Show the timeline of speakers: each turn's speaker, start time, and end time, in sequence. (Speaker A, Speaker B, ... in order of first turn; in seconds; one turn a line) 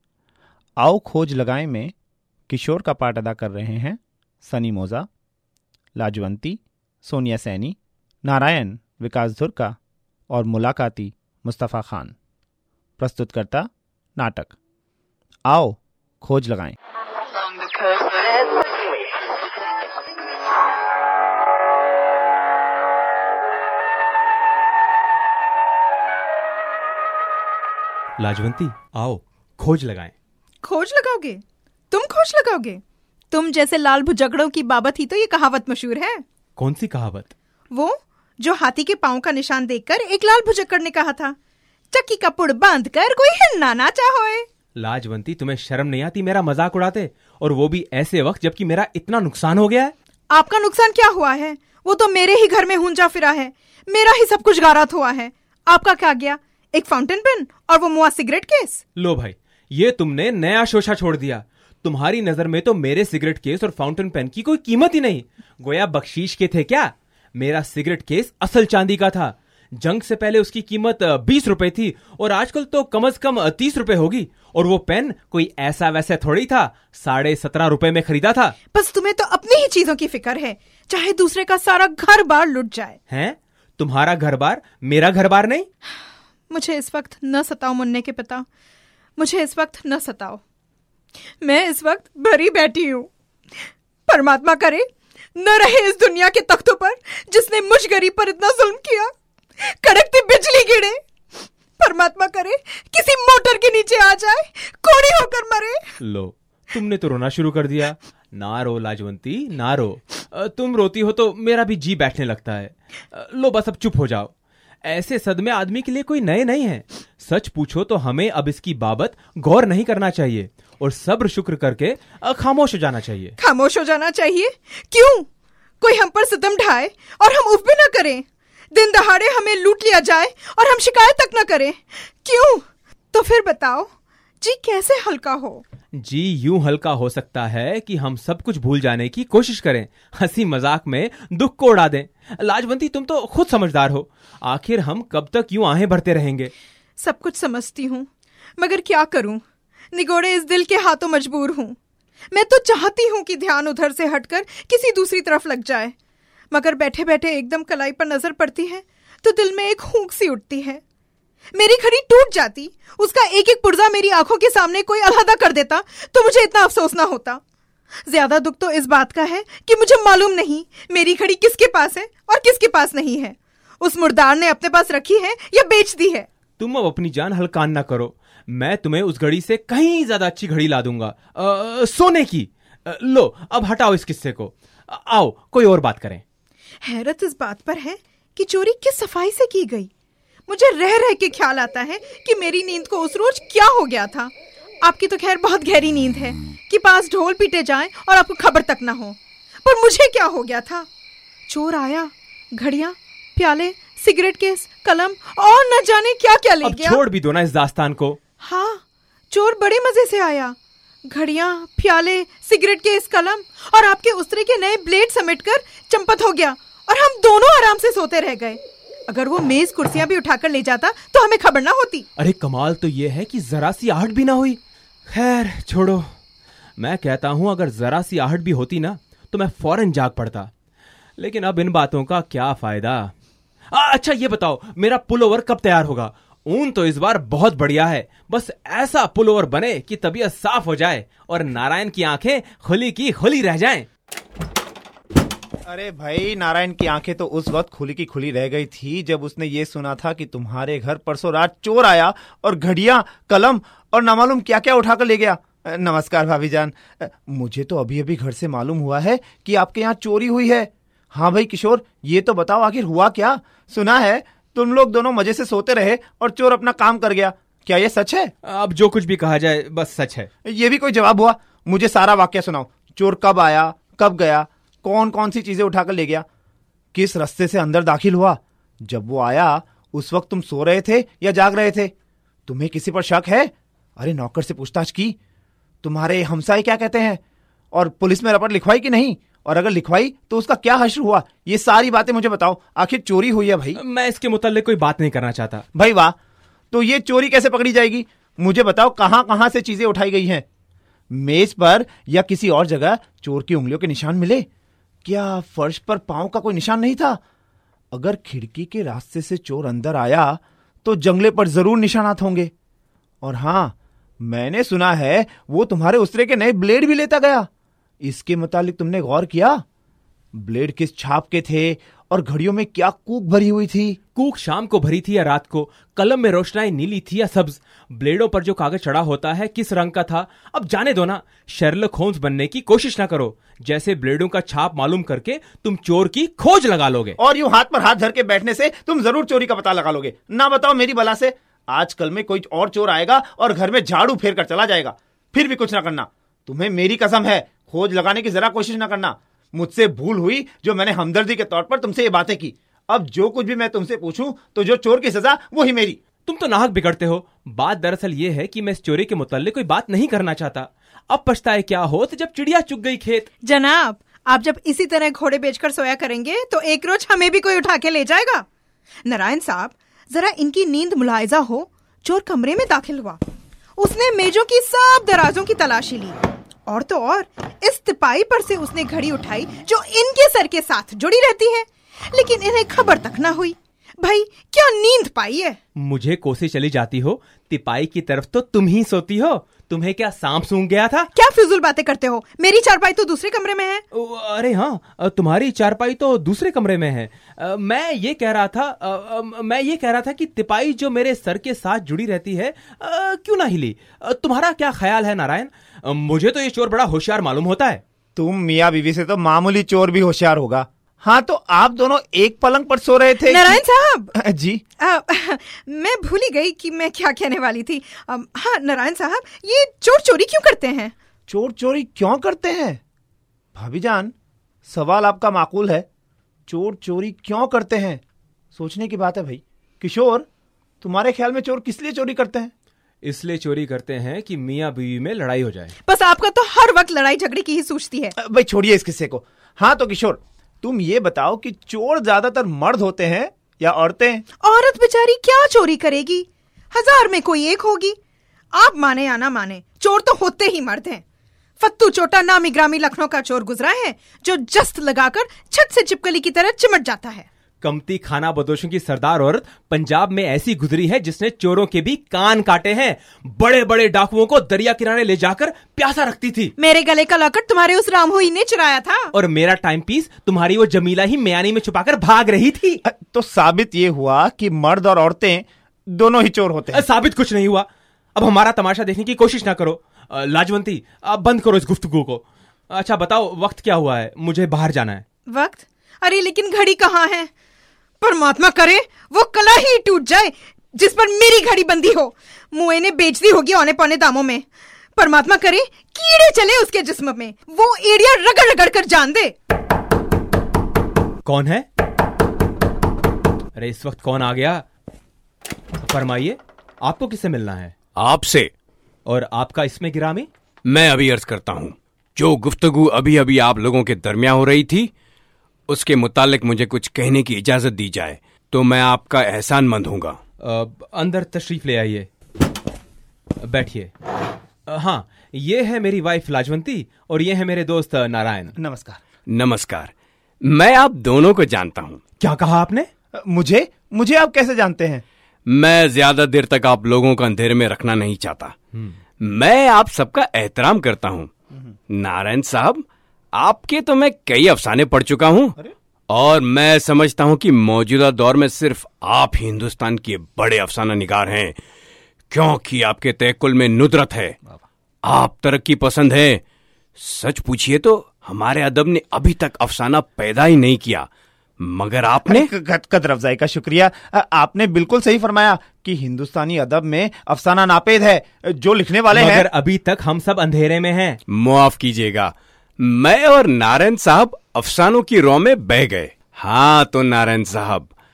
Speaker A: 0.8-1.9
Speaker A: 2.5-5.1
Speaker A: 6.0-9.8
Speaker A: 10.3-12.1
Speaker A: 13.0-14.6
Speaker A: 15.4-16.8
Speaker B: 28.2-30.1
Speaker C: 30.6-32.8
Speaker C: 33.3-36.2
Speaker B: 36.6-37.3
Speaker C: 37.7-41.4
Speaker C: 41.9-44.5
Speaker B: 44.8-49.9
Speaker C: 50.3-58.8
Speaker B: 59.0-78.5
Speaker C: 78.7-83.0
Speaker B: 83.1-85.7
Speaker C: 86.5-88.5
Speaker C: 89.2-90.4
Speaker C: 91.4-93.1
Speaker C: 94.1-101.0
Speaker C: 101.8-105.9
Speaker B: 106.0-114.3
Speaker B: 114.8-123.4
Speaker C: 123.4-125.3
Speaker C: 125.8-133.9
Speaker C: 134.4-135.6
Speaker B: 135.9-146.5
Speaker C: 147.0-151.8
Speaker C: 152.3-155.9
Speaker C: 156.5-160.8
Speaker C: 161.6-167.4
Speaker C: 168.1-176.3
Speaker B: 176.6-186.2
Speaker C: 186.8-189.9
Speaker C: 190.5-200.9
Speaker C: 201.5-207.0
Speaker B: 206.6-208.2
Speaker C: 208.4-222.1
Speaker B: 222.2-226.1
Speaker B: 226.8-230.5
Speaker B: 231.2-233.1
Speaker B: 233.7-243.9
Speaker A: 245.6-268.3
Speaker B: 268.4-270.3
Speaker A: 270.4-276.2
Speaker A: 276.9-281.9
Speaker A: 282.5-285.1
Speaker A: 285.8-287.2
Speaker A: 287.7-293.8
Speaker B: 293.7-295.6
Speaker A: 295.7-296.1
Speaker A: 296.7-300.4
Speaker A: 301.1-304.4
Speaker A: 305.0-307.2
Speaker A: 307.9-312.5
Speaker A: 313.2-317.5
Speaker A: 318.0-319.6
Speaker A: 320.3-324.0
Speaker B: 324.1-337.2
Speaker A: 337.2-356.0
Speaker B: 356.2-363.3
Speaker C: 363.4-368.4
Speaker C: 369.1-373.2
Speaker C: 373.8-385.6
Speaker B: 385.8-391.1
Speaker C: 391.1-393.8
Speaker B: 393.9-407.8
Speaker A: 408.1-413.6
Speaker C: 413.2-414.1
Speaker A: 414.1-414.6
Speaker C: 414.8-420.9
Speaker A: 421.3-422.8
Speaker A: 423.5-424.1
Speaker A: 424.6-425.9
Speaker A: 426.5-428.0
Speaker A: 428.5-430.3
Speaker A: 430.8-432.5
Speaker B: 433.0-435.7
Speaker C: 435.8-438.1
Speaker A: 438.2-444.2
Speaker C: 444.4-447.9
Speaker C: 448.5-451.0
Speaker C: 451.6-457.3
Speaker B: 457.6-466.5
Speaker C: 466.6-469.1
Speaker B: 469.1-472.8
Speaker A: 472.8-476.8
Speaker B: 476.7-485.0
Speaker C: 485.3-487.3
Speaker C: 488.0-499.3
Speaker B: 501.2-501.6
Speaker B: 503.5-504.6
Speaker B: 505.8-507.7
Speaker D: 507.9-508.5
Speaker B: 509.0-510.3
Speaker D: 510.6-514.9
Speaker D: 515.7-520.2
Speaker B: 520.4-522.1
Speaker B: 523.4-523.9
Speaker B: 524.6-528.5
Speaker A: 528.6-529.0
Speaker D: 529.3-532.0
Speaker B: 532.2-532.9
Speaker A: 533.1-535.0
Speaker D: 535.5-538.5
Speaker D: 539.2-541.3
Speaker D: 541.9-545.6
Speaker D: 546.1-551.6
Speaker D: 552.3-554.4
Speaker D: 555.0-556.4
Speaker D: 557.0-561.1
Speaker D: 561.6-562.5
Speaker A: 562.2-569.5
Speaker B: 569.1-571.2
Speaker D: 571.3-577.9